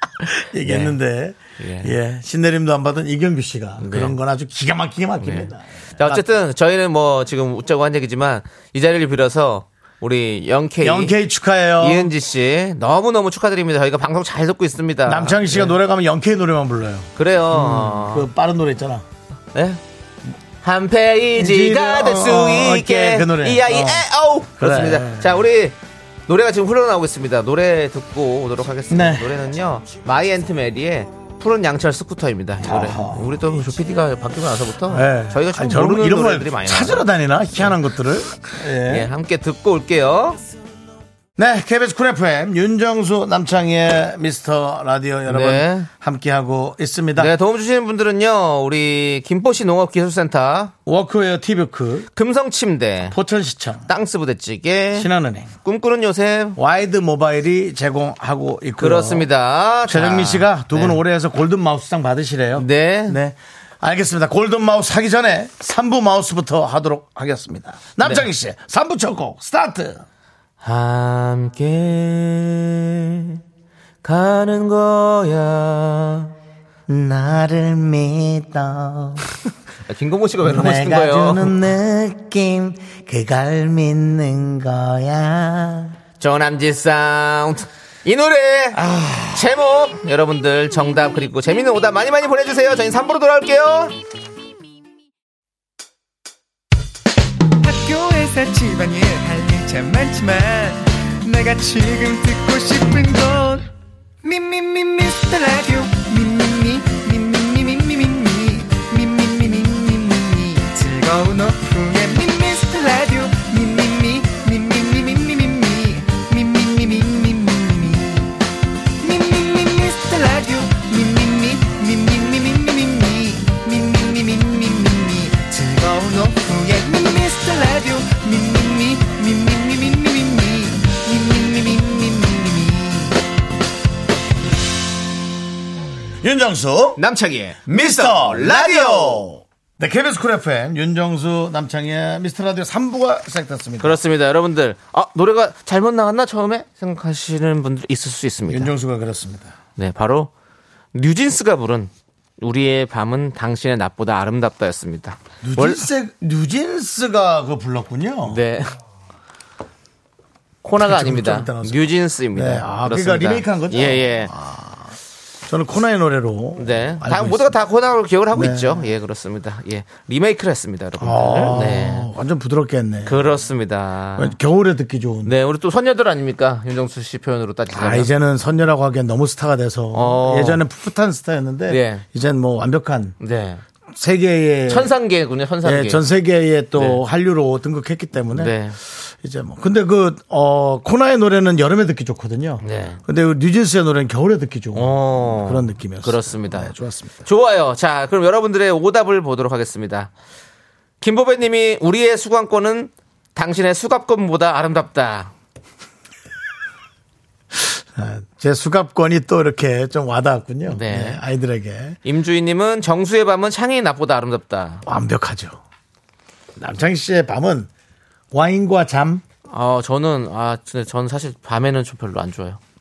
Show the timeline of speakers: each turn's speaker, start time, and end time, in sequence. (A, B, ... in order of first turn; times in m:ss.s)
0:00.2-0:06.2 A
0:00.6-0:01.0 B
0:01.6-0:02.0 B
0:03.8-0:04.1 B
0:05.2-0:11.2 B
0:10.8-0:12.1 A
0:11.8-0:15.7 B
0:15.0-0:19.0 A
0:17.2-0:18.3 B
0:19.5-0:19.8 B
0:20.6-0:37.0 B
0:21.4-0:24.1 A
0:24.6-0:25.3 A
0:28.9-0:29.4 A
0:32.6-0:33.4 A
0:34.9-0:39.1 A
0:38.8-0:40.4 B
0:41.4-0:47.3 A
0:45.3-0:45.9 B
0:47.2-0:50.7 B
0:50.8-0:52.1 A
0:52.1-0:53.1 B
0:53.1-0:53.9 A
0:53.9-0:55.1 B
0:54.9-0:55.5 A
0:55.6-0:56.6 B
0:56.6-0:59.3 A
0:58.8-1:01.0 B
0:59.8-1:10.0 A
1:02.6-1:03.2 B
1:08.0-1:08.3 B
1:10.6-1:13.4 B
1:14.0-1:16.3 B
1:16.9-1:19.2 A
1:19.9-1:21.6 B
1:20.4-1:26.0 A
1:26.2-1:28.8 B
1:28.7-1:29.5 A
1:29.3-1:33.9 B
1:37.6-1:43.7 C
1:44.2-1:58.4 C
1:59.0-2:13.2 C
2:16.2-2:17.0 A
2:17.0-2:19.3 B
2:17.7-2:24.0 A
2:23.8-2:28.7 B
2:28.5-2:29.5 A
2:29.8-2:30.3 B
2:30.9-2:35.8 B
2:35.4-2:38.4 A
2:38.2-2:38.7 B
2:40.6-2:44.3 B
2:40.8-2:44.9 A
2:45.5-2:47.5 A
2:46.6-2:52.1 B
2:48.3-2:48.9 A
2:51.0-2:53.5 A
2:53.0-2:54.4 B
2:54.2-2:55.3 A
2:55.2-2:58.1 B
2:57.7-3:03.2 A
2:59.9-3:00.6 B
3:01.7-3:02.0 B
3:03.2-3:03.6 B
3:03.9-3:04.9 A
3:04.7-3:06.0 B
3:05.6-3:17.2 A
3:06.7-3:07.0 B
3:08.3-3:08.8 B
3:12.6-3:13.0 B
3:14.7-3:20.1 B
3:21.0-3:25.3 B
3:27.5-3:32.0 A
3:30.7-3:31.2 B
3:32.0-3:34.8 B
3:34.8-3:35.6 A
3:36.6-3:37.7 A
3:38.3-3:39.2 A
3:39.5-3:42.6 B